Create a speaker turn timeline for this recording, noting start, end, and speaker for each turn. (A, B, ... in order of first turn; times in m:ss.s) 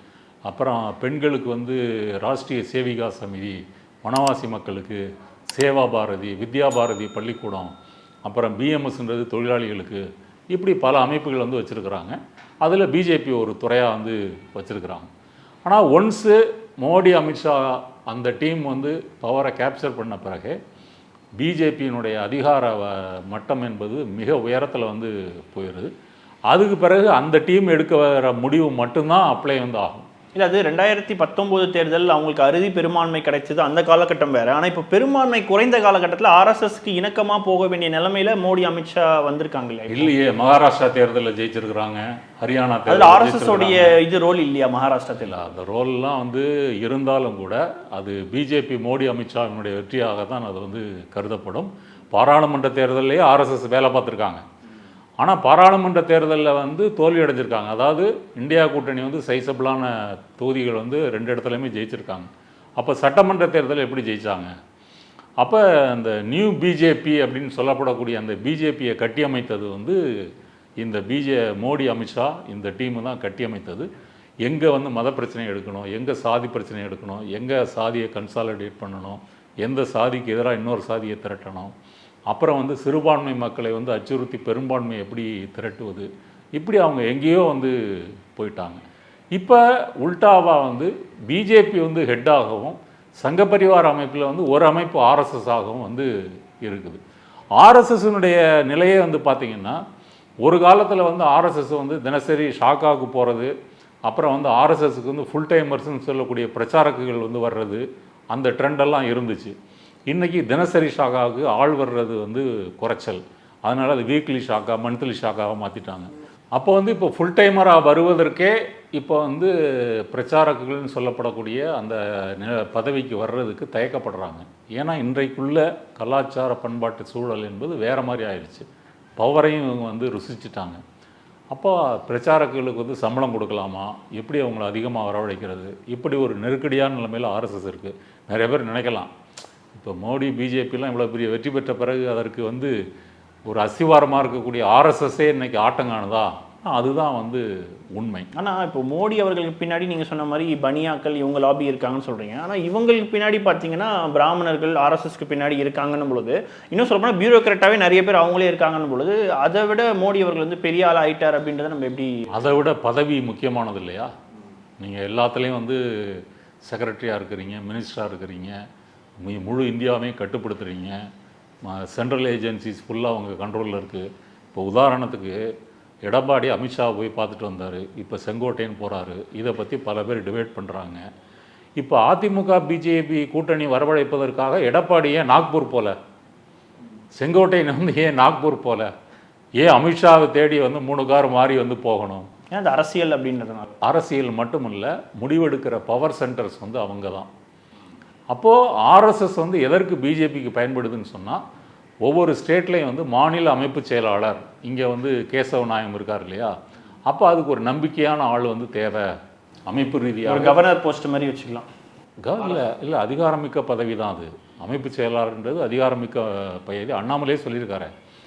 0:00.5-0:15.1 A
0:15.6-0:20.6 A
0:21.4-0:25.9 A
0:26.5-0:30.0 A
0:30.3-0:40.1 B
0:39.9-0:44.0 A
0:42.9-0:45.4 B
0:45.2-0:54.4 A
0:55.2-1:04.5 A
1:05.4-1:10.0 A
1:10.8-1:13.9 A
1:14.4-1:21.7 A
1:22.3-1:27.7 A
1:28.3-1:28.8 A
1:29.3-1:36.1 A
1:36.6-1:37.0 A
1:37.6-1:39.8 A
1:40.4-1:43.5 A
1:44.1-1:49.5 A
1:50.1-2:08.7 A
2:09.2-2:10.8 A
2:11.5-2:19.1 A
2:19.7-2:22.7 A
2:23.4-2:28.3 A
2:28.3-2:42.5 B
2:42.3-2:44.1 A
2:44.8-2:48.6 A
2:49.2-2:51.0 A
2:51.6-2:55.4 A
2:56.0-3:01.0 A
3:01.8-3:05.9 A
3:07.2-3:08.9 A
3:09.6-3:12.3 A
3:12.5-3:13.7 B
3:13.8-3:17.3 A
3:18.3-3:21.4 A
3:22.0-3:26.6 A
3:27.1-3:29.1 A
3:29.7-3:30.6 A
3:30.2-3:31.7 B
3:32.2-3:37.9 A